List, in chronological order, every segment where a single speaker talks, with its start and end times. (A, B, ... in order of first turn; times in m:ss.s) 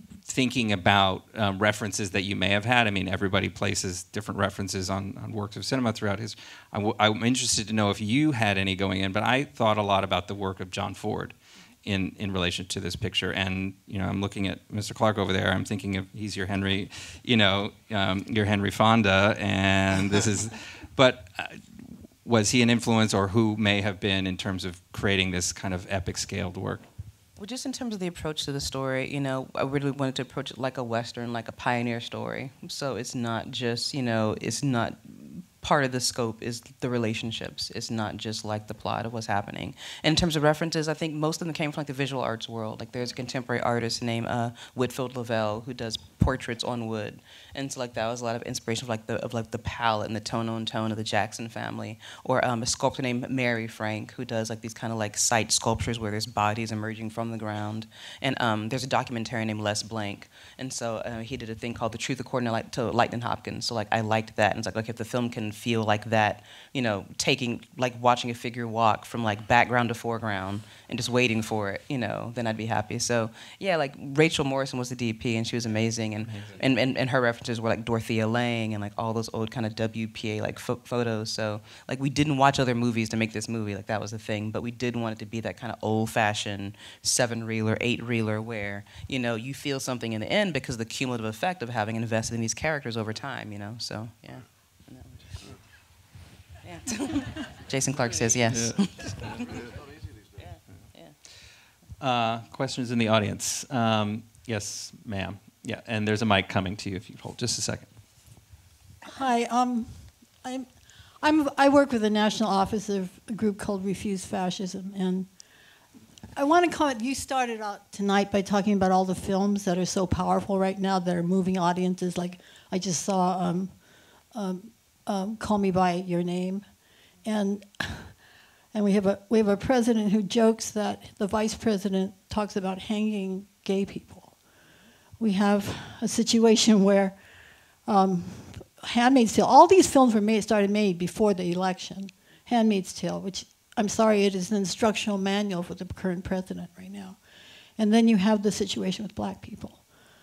0:00.2-0:26.9 A
0:27.4-1:35.4 B
1:16.2-1:16.6 A
1:36.6-1:39.6 B
1:38.5-1:39.5 A
1:40.4-1:41.2 B
1:42.0-1:47.9 A
1:49.1-1:50.7 C
1:51.2-1:55.3 C
1:56.4-2:03.7 C
2:04.3-2:06.6 C
2:07.2-2:08.2 C
2:08.7-2:14.4 C
2:15.2-2:17.2 C
2:17.9-2:27.2 C
2:27.8-2:29.8 C